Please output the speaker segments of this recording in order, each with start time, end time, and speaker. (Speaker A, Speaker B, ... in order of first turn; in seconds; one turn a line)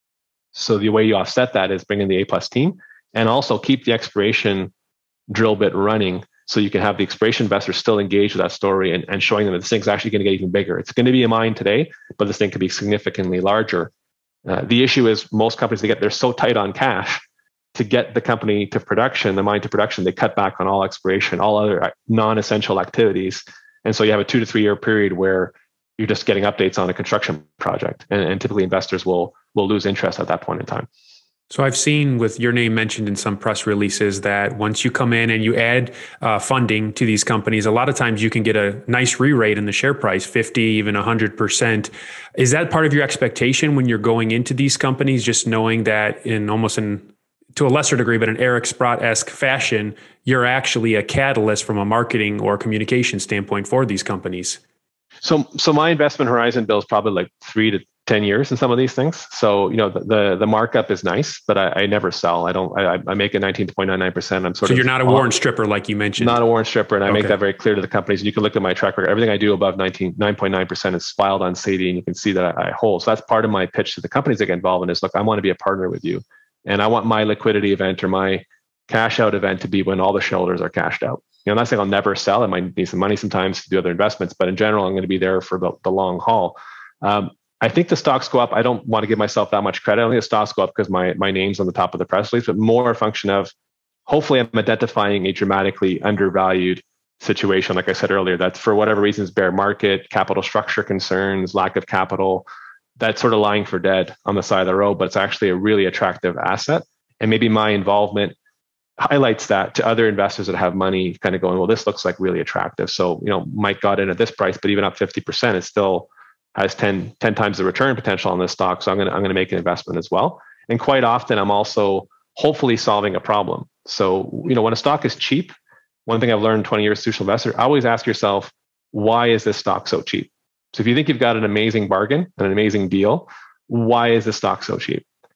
Speaker A: 0.5-4.7
Speaker A: 5.3-13.9
Speaker A: 14.4-17.2
Speaker A: 17.7-30.9
Speaker B: 31.5-54.6
Speaker A: 55.2-65.3
Speaker B: 64.6-66.4
Speaker A: 66.2-93.5
Speaker B: 67.1-67.3
Speaker A: 94.1-102.5
Speaker A: 103.0-108.3
Speaker A: 109.0-125.5
Speaker A: 126.0-135.0